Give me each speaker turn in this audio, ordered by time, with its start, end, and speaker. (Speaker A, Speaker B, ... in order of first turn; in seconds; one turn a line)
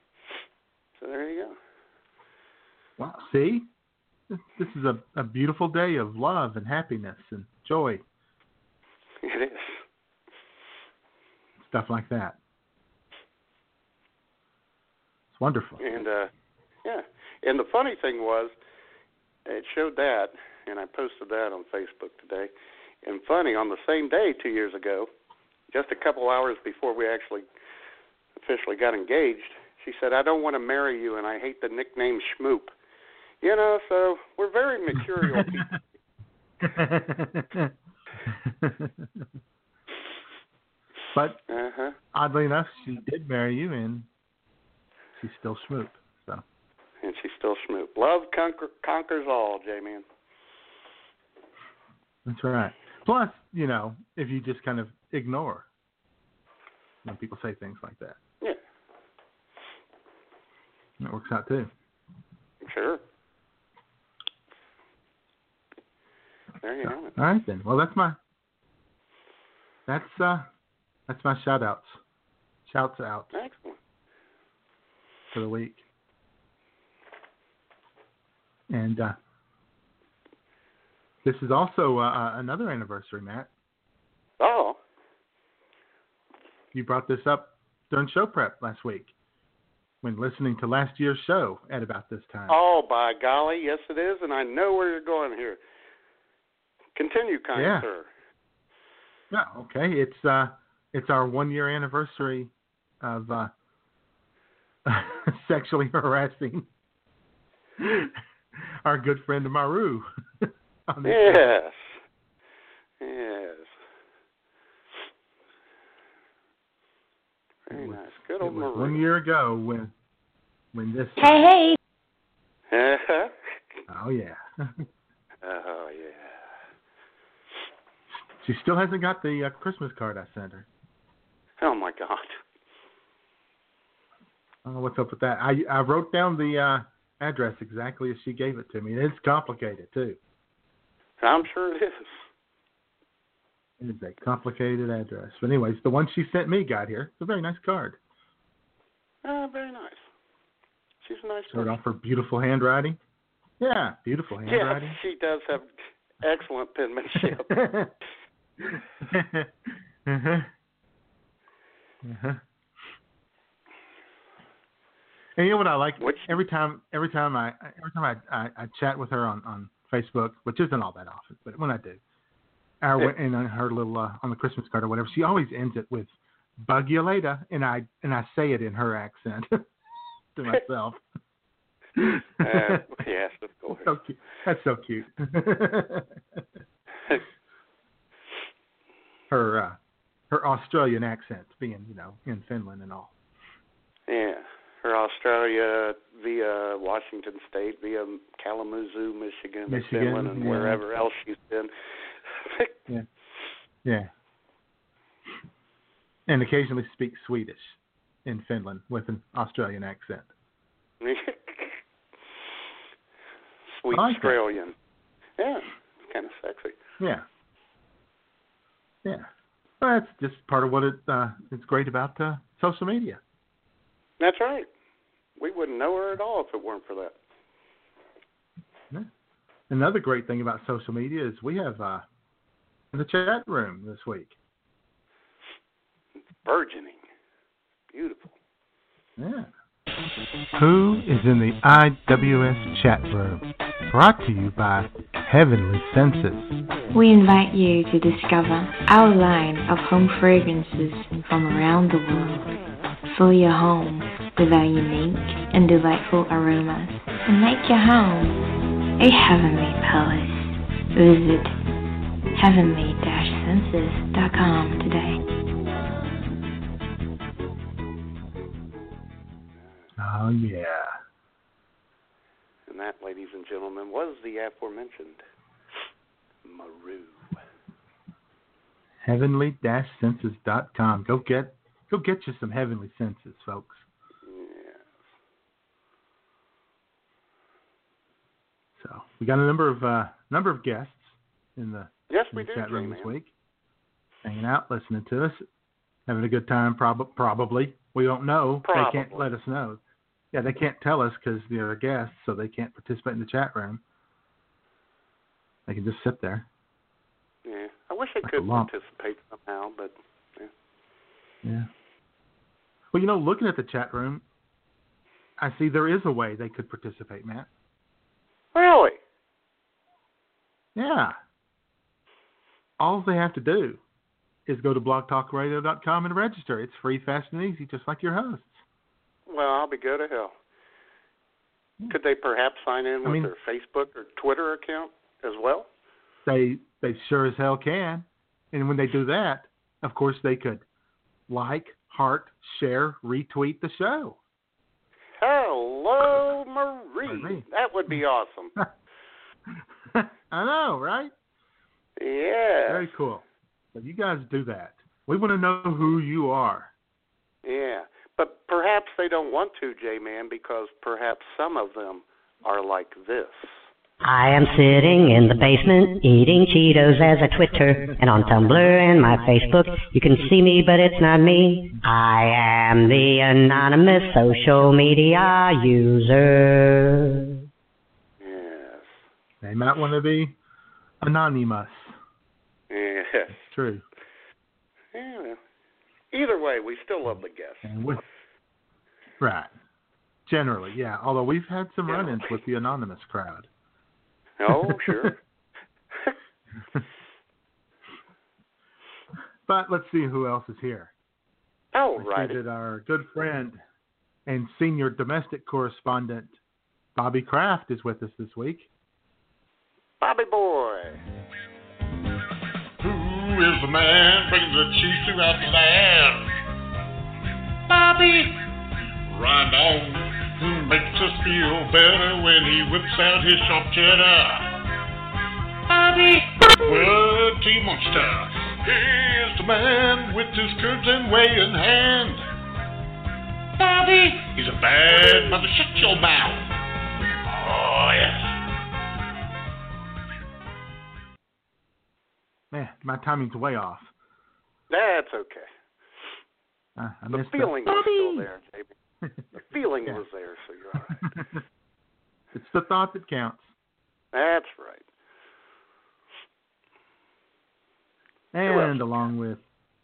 Speaker A: 1.0-1.6
Speaker B: 3.0-3.7
Speaker B: 4.3-8.0
Speaker A: 9.2-9.8
Speaker B: 11.6-12.4
Speaker B: 15.3-15.8
Speaker A: 15.8-16.3
Speaker A: 16.9-18.5
Speaker A: 19.5-22.5
Speaker A: 23.0-25.1
Speaker A: 25.7-27.5
Speaker A: 28.4-32.7
Speaker A: 33.4-35.8
Speaker B: 35.0-35.7
Speaker B: 36.6-37.7
Speaker B: 38.3-39.2
Speaker B: 41.1-41.4
Speaker A: 41.5-42.0
Speaker B: 42.1-44.1
Speaker B: 45.2-46.4
Speaker A: 47.0-50.0
Speaker B: 52.3-55.7
Speaker B: 57.0-58.2
Speaker B: 61.0-61.7
Speaker A: 62.6-63.0
Speaker A: 66.6-67.1
Speaker B: 66.8-68.2
Speaker B: 69.9-70.5
Speaker B: 71.1-72.0
Speaker B: 72.7-73.3
Speaker A: 73.3-73.8
Speaker B: 75.3-75.8
Speaker B: 78.7-79.2
Speaker B: 81.2-83.5
Speaker A: 84.4-84.8
Speaker B: 86.7-89.1
Speaker B: 90.0-92.6
Speaker A: 92.5-95.6
Speaker A: 97.0-98.1
Speaker B: 97.5-97.9
Speaker B: 99.3-103.5
Speaker B: 104.9-106.7
Speaker B: 107.8-111.4
Speaker A: 111.0-112.0
Speaker A: 113.0-113.7
Speaker A: 117.7-119.0
Speaker B: 117.7-119.9
Speaker B: 120.7-121.3
Speaker A: 122.7-123.3
Speaker B: 123.9-124.9
Speaker A: 125.4-126.4
Speaker B: 128.4-130.7
Speaker A: 131.6-132.4
Speaker B: 134.7-140.2
Speaker A: 141.2-142.2
Speaker B: 143.8-148.0
Speaker A: 149.2-150.0
Speaker A: 151.0-151.8
Speaker B: 151.5-153.0
Speaker B: 153.6-155.0
Speaker A: 154.5-155.7
Speaker A: 156.2-157.5
Speaker B: 157.2-157.9
Speaker B: 159.0-160.5
Speaker B: 162.0-162.4
Speaker B: 165.4-172.0
Speaker A: 166.0-166.3
Speaker B: 172.8-179.6
Speaker B: 180.4-181.0
Speaker B: 182.0-182.9
Speaker A: 182.4-183.9
Speaker B: 183.8-186.4
Speaker B: 189.3-189.8
Speaker B: 190.3-193.1
Speaker A: 194.1-201.7
Speaker B: 199.7-200.8
Speaker A: 202.3-202.7
Speaker B: 203.8-204.1
Speaker B: 206.3-210.3
Speaker A: 211.0-211.8
Speaker A: 213.8-214.7
Speaker B: 213.9-214.4
Speaker A: 215.4-216.8
Speaker B: 219.8-223.2
Speaker A: 224.2-224.7
Speaker A: 225.4-227.2
Speaker B: 229.7-232.1
Speaker B: 232.9-234.4
Speaker A: 236.4-237.0
Speaker A: 237.9-238.3
Speaker B: 239.2-239.5
Speaker B: 240.6-246.5
Speaker C: 246.9-252.5
Speaker C: 253.1-258.4
Speaker C: 259.0-261.6
Speaker C: 262.4-265.2
Speaker B: 270.0-271.0
Speaker A: 272.7-275.2
Speaker A: 276.4-277.4
Speaker B: 279.0-283.9
Speaker A: 284.2-284.9
Speaker B: 288.8-293.3
Speaker A: 292.1-293.1
Speaker B: 294.2-295.4
Speaker B: 296.1-299.8
Speaker A: 298.6-299.3
Speaker B: 300.3-303.8
Speaker B: 305.7-306.5
Speaker A: 307.4-310.5
Speaker B: 308.2-308.7
Speaker B: 312.9-314.2
Speaker B: 315.4-317.5
Speaker A: 318.6-319.0
Speaker B: 320.8-321.2
Speaker B: 322.8-323.8
Speaker B: 324.5-328.6
Speaker A: 329.3-330.3
Speaker A: 331.9-335.7
Speaker B: 333.0-333.3
Speaker B: 336.3-340.6
Speaker B: 341.3-344.2
Speaker A: 345.2-348.6
Speaker B: 347.1-347.4
Speaker B: 349.9-351.1
Speaker A: 352.0-352.9
Speaker B: 352.7-356.7
Speaker A: 357.4-363.6
Speaker D: 364.0-377.1
Speaker A: 378.2-378.9
Speaker B: 379.4-380.4
Speaker B: 381.0-381.9
Speaker A: 382.7-383.4
Speaker B: 383.4-383.8
Speaker A: 384.9-385.4
Speaker A: 386.1-387.7
Speaker B: 387.6-388.0
Speaker B: 389.2-389.5
Speaker B: 390.3-393.5
Speaker A: 391.9-392.4
Speaker A: 394.4-395.2
Speaker B: 394.5-395.1
Speaker B: 399.5-400.9
Speaker A: 401.7-402.4
Speaker B: 402.0-403.6
Speaker B: 404.3-406.4
Speaker B: 406.9-408.7
Speaker A: 410.0-411.0
Speaker E: 412.8-416.3
Speaker E: 417.7-418.3
Speaker E: 419.1-424.5
Speaker E: 425.7-432.2
Speaker E: 433.6-436.5
Speaker E: 437.3-438.1
Speaker B: 442.5-443.9
Speaker A: 444.7-445.5
Speaker B: 446.8-448.3
Speaker A: 447.1-448.7
Speaker A: 449.3-451.0
Speaker B: 450.9-451.4
Speaker B: 452.3-453.5
Speaker A: 454.1-454.9
Speaker B: 458.3-459.4
Speaker A: 458.5-458.8